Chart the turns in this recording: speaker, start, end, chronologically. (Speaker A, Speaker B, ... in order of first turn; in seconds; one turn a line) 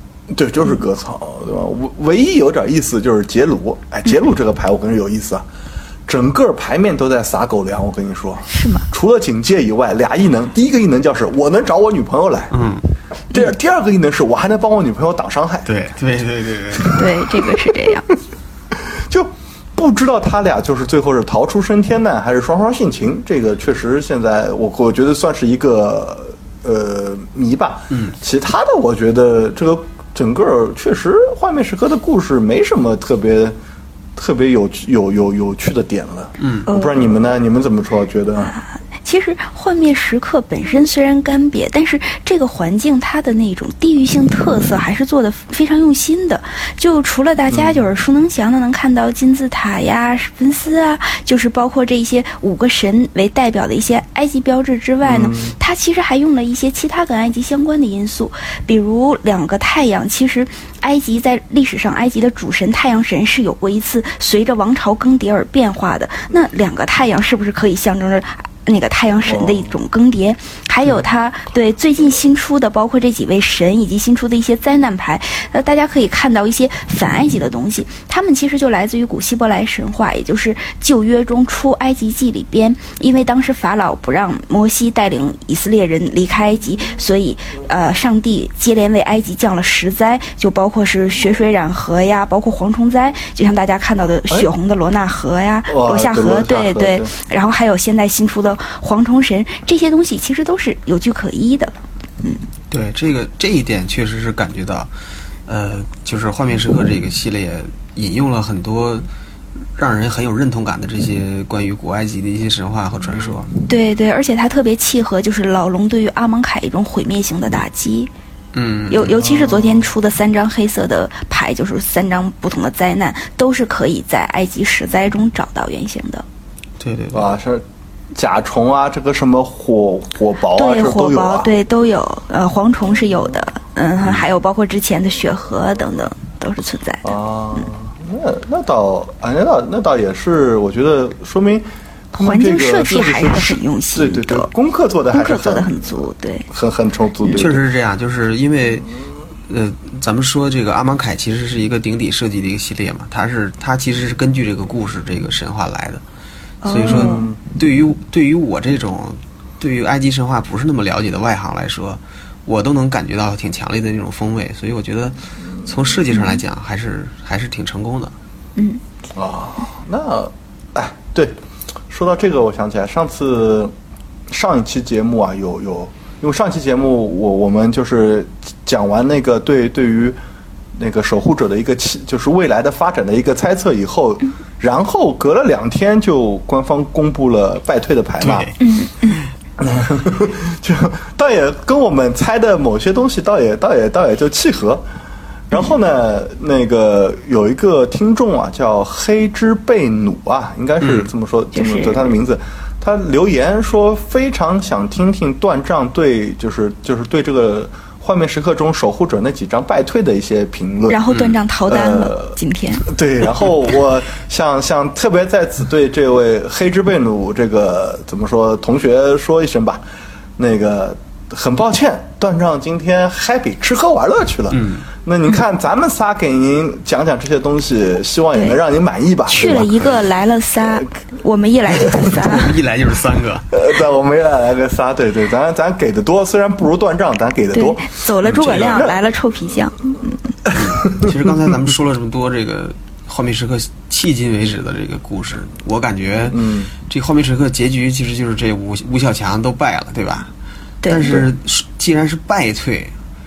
Speaker A: 0.3-5.4
Speaker A: 6.1-12.5
Speaker B: 8.5-8.9
Speaker C: 12.5-12.8
Speaker A: 13.3-15.7
Speaker C: 15.7-17.0
Speaker B: 16.9-18.1
Speaker A: 17.5-17.9
Speaker A: 18.7-33.6
Speaker A: 34.2-38.5
Speaker C: 36.4-36.7
Speaker B: 36.7-37.0
Speaker B: 38.5-102.5
Speaker A: 47.5-47.8
Speaker A: 55.0-55.5
Speaker A: 69.2-69.8
Speaker A: 95.7-97.1
Speaker C: 102.7-104.9
Speaker C: 105.5-109.1
Speaker C: 109.8-113.5
Speaker B: 113.7-118.1
Speaker C: 118.5-119.2
Speaker B: 118.9-126.2
Speaker A: 119.2-119.9
Speaker C: 126.8-127.3
Speaker A: 127.1-131.5
Speaker B: 130.6-137.1
Speaker A: 137.0-147.6
Speaker B: 142.2-144.5
Speaker B: 145.1-146.5
Speaker C: 147.3-148.9
Speaker C: 149.5-156.0
Speaker B: 156.6-157.3
Speaker C: 156.7-168.1
Speaker A: 156.8-157.4
Speaker A: 169.2-171.3
Speaker A: 171.9-173.7
Speaker A: 174.3-180.2
Speaker A: 180.8-188.5
Speaker C: 188.2-188.6
Speaker B: 188.6-189.2
Speaker A: 189.6-194.8
Speaker A: 195.5-211.0
Speaker C: 200.8-201.1
Speaker B: 201.5-202.1
Speaker B: 210.9-212.9
Speaker C: 211.1-211.4
Speaker A: 211.7-219.8
Speaker A: 220.4-229.8
Speaker C: 224.5-224.9
Speaker B: 229.3-232.6
Speaker C: 232.0-233.5
Speaker A: 233.5-239.0
Speaker B: 237.5-240.2
Speaker C: 238.3-238.8
Speaker A: 240.5-241.2
Speaker C: 240.5-250.3
Speaker A: 246.3-246.7
Speaker B: 250.8-251.2
Speaker C: 250.9-252.9